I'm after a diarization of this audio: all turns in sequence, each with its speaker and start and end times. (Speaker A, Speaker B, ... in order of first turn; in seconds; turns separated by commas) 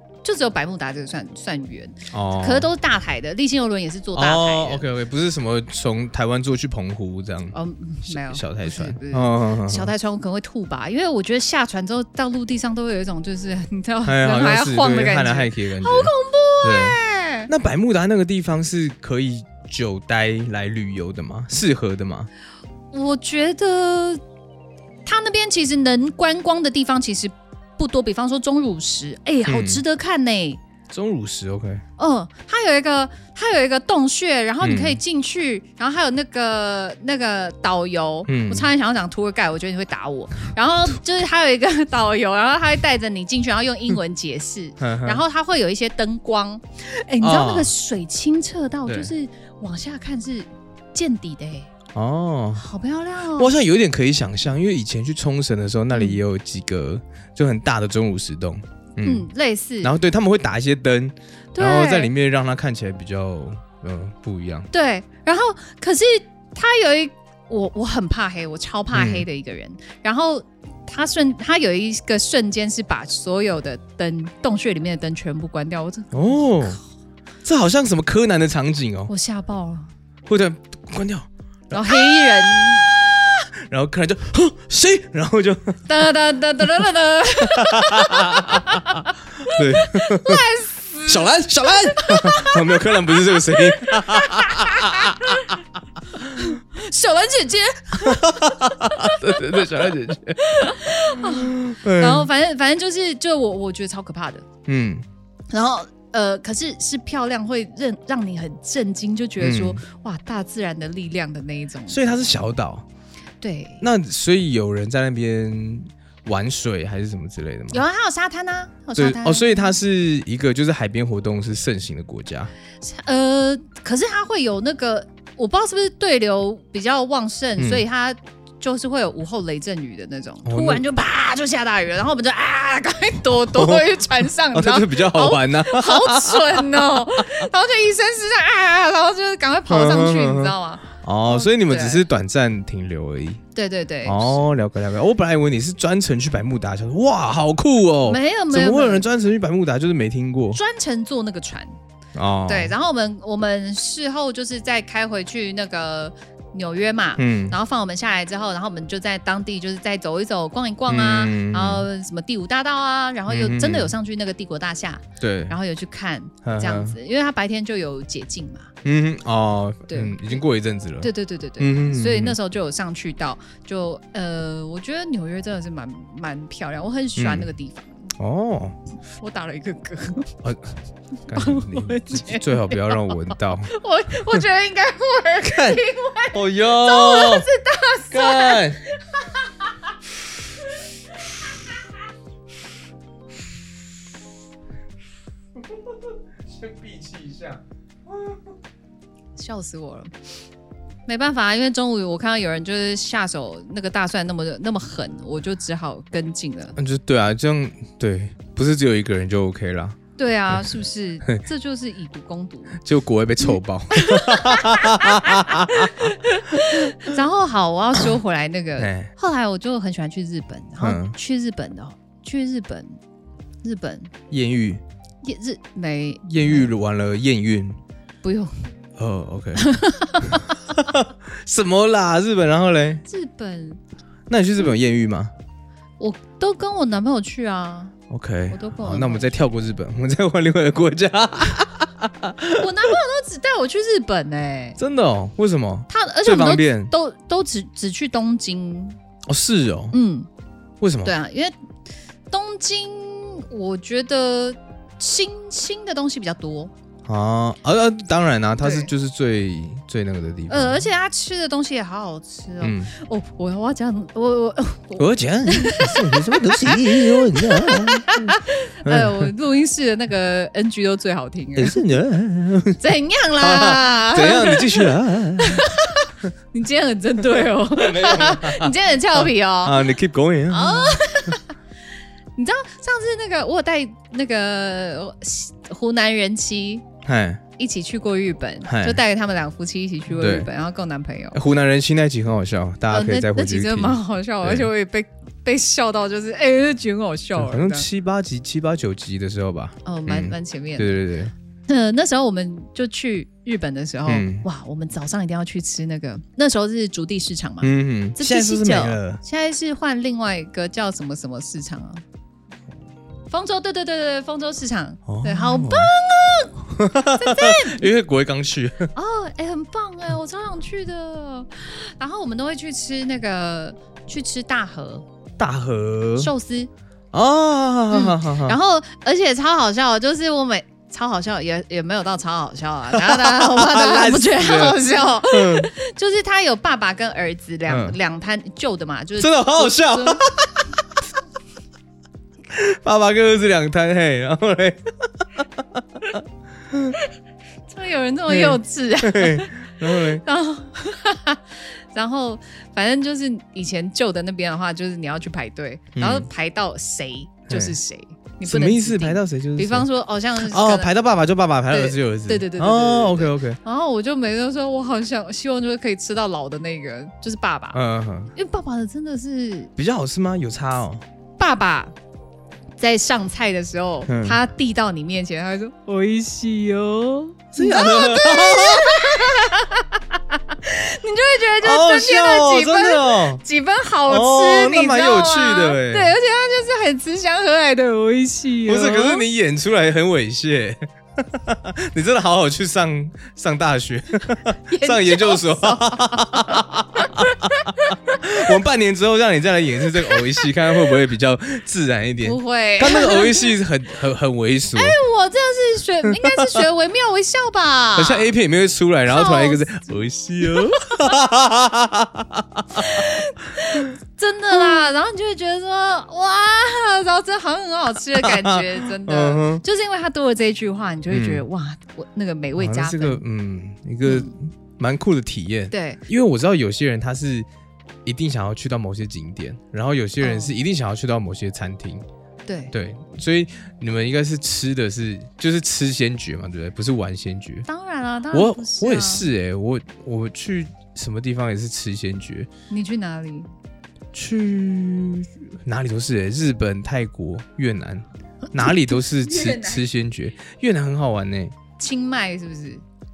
Speaker A: 0.2-4.8, Speaker B: 2.1-2.7, Speaker B: 4.1-7.5, Speaker A: 7.5-17.5, Speaker B: 8.1-9.9, Speaker B: 14.0-22.3, Speaker A: 22.9-24.2, Speaker A: 25.0-30.6, Speaker B: 29.4-29.8, Speaker B: 30.9-31.8, Speaker A: 32.0-51.7, Speaker B: 34.6-35.0, Speaker B: 38.3-38.7, Speaker B: 44.8-45.2, Speaker B: 47.2-47.7, Speaker B: 48.9-49.1, Speaker B: 51.9-52.6, Speaker A: 52.5-53.5, Speaker B: 53.4-59.3, Speaker A: 55.9-56.2, Speaker A: 59.0-59.9, Speaker B: 59.8-64.7, Speaker A: 61.5-62.1, Speaker A: 64.7-76.8, Speaker B: 68.9-69.2, Speaker B: 76.1-76.8, Speaker B: 77.4-79.1, Speaker A: 79.1-79.9, Speaker B: 80.3-83.0, Speaker A: 81.7-83.4, Speaker B: 83.7-85.9, Speaker A: 85.9-95.6, Speaker B: 87.4-88.8, Speaker B: 89.4-90.5, Speaker B: 91.1-95.5, Speaker A: 96.1-99.7, Speaker B: 98.0-102.3, Speaker A: 100.4-104.5, Speaker B: 104.7-105.0, Speaker A: 105.5-112.2, Speaker B: 109.4-109.8, Speaker B: 111.9-112.8, Speaker A: 113.4-113.8, Speaker B: 113.8-117.8, Speaker A: 117.7-119.7, Speaker B: 118.9-122.5, Speaker A: 122.8-142.0, Speaker B: 127.6-127.8, Speaker B: 130.4-130.8, Speaker B: 133.4-137.5, Speaker B: 139.7-143.4, Speaker A: 143.5-144.4, Speaker B: 144.0-150.6, Speaker A: 148.1-149.0, Speaker A: 150.5-151.8, Speaker B: 152.1-152.7, Speaker A: 152.5-168.7, Speaker B: 157.2-157.6, Speaker B: 160.9-161.9, Speaker B: 163.3-163.9, Speaker B: 165.2-165.6, Speaker B: 166.4-166.9, Speaker B: 168.8-172.4, Speaker A: 169.9-170.4, Speaker A: 171.0-178.1, Speaker B: 177.2-177.5, Speaker B: 178.2-178.8, Speaker A: 179.2-180.3, Speaker B: 180.4-180.7, Speaker B: 181.3-183.7, Speaker A: 181.3-189.5, Speaker B: 185.4-187.4, Speaker B: 188.1-188.8, Speaker B: 195.6-198.4, Speaker A: 199.4-200.1, Speaker A: 201.1-206.8, Speaker B: 206.8-210.0, Speaker A: 210.2-212.8, Speaker B: 210.5-210.8, Speaker B: 212.8-217.1, Speaker A: 213.9-222.9, Speaker B: 218.8-219.1, Speaker B: 220.8-221.1, Speaker A: 223.6-224.1, Speaker B: 224.3-224.8, Speaker A: 225.2-226.6, Speaker B: 226.2-227.8, Speaker A: 228.2-228.7, Speaker B: 229.0-233.0, Speaker A: 229.6-230.6, Speaker A: 233.0-233.8, Speaker B: 234.3-235.3, Speaker A: 236.0-237.9, Speaker B: 238.1-242.9, Speaker A: 238.5-239.3, Speaker A: 242.6-244.8, Speaker B: 244.8-246.9, Speaker A: 245.9-249.0, Speaker B: 249.3-249.9, Speaker A: 249.9-250.3, Speaker B: 250.8-251.1, Speaker A: 251.0-251.6, Speaker A: 252.3-256.7, Speaker B: 257.0-260.8, Speaker A: 258.6-258.9, Speaker A: 260.5-271.8, Speaker B: 262.6-262.9, Speaker B: 265.0-269.3, Speaker B: 271.6-272.8, Speaker A: 272.8-279.9, Speaker B: 273.4-275.7, Speaker B: 277.2-281.4, Speaker A: 280.5-281.5, Speaker A: 282.4-286.8, Speaker B: 287.0-287.4, Speaker A: 287.6-291.4, Speaker B: 288.6-289.0, Speaker B: 290.1-290.5, Speaker B: 291.3-294.7, Speaker A: 292.9-297.9, Speaker B: 297.4-301.3, Speaker A: 299.8-301.0, Speaker A: 301.7-312.0, Speaker B: 304.1-304.4, Speaker B: 307.6-309.2, Speaker A: 313.3-316.5, Speaker B: 315.1-315.9, Speaker B: 316.6-318.9, Speaker A: 317.1-317.9, Speaker A: 318.9-325.0, Speaker B: 325.4-326.3, Speaker A: 326.2-326.7, Speaker B: 327.1-328.6, Speaker A: 327.9-340.2, Speaker B: 332.9-335.7, Speaker B: 337.7-338.0, Speaker B: 339.2-340.8, Speaker B: 342.5-347.0, Speaker A: 347.7-360.9, Speaker B: 348.3-350.2, Speaker B: 355.9-356.3, Speaker B: 357.5-357.8, Speaker B: 358.4-363.6, Speaker A: 361.7-367.8, Speaker B: 367.7-368.3, Speaker A: 368.3-369.7, Speaker B: 369.8-371.0, Speaker A: 371.4-371.9, Speaker A: 372.8-389.2, Speaker B: 374.1-374.4, Speaker B: 377.5-379.5, Speaker B: 381.6-383.4, Speaker B: 384.1-386.1, Speaker B: 388.6-405.0, Speaker A: 394.6-398.2, Speaker A: 402.2-403.5, Speaker A: 404.7-408.3, Speaker B: 406.1-406.6, Speaker B: 407.9-413.1, Speaker A: 409.1-411.1, Speaker A: 412.7-423.2, Speaker B: 414.5-414.9, Speaker B: 418.1-419.6, Speaker B: 421.1-421.4, Speaker B: 422.6-427.5, Speaker A: 424.0-424.3, Speaker A: 425.7-426.0, Speaker B: 428.0-432.0, Speaker A: 430.2-430.5, Speaker A: 432.4-432.7, Speaker B: 432.7-437.7, Speaker A: 437.7-439.3, Speaker B: 438.3-442.5, Speaker A: 442.7-443.5, Speaker B: 444.1-451.5, Speaker A: 448.6-449.8, Speaker A: 451.8-452.8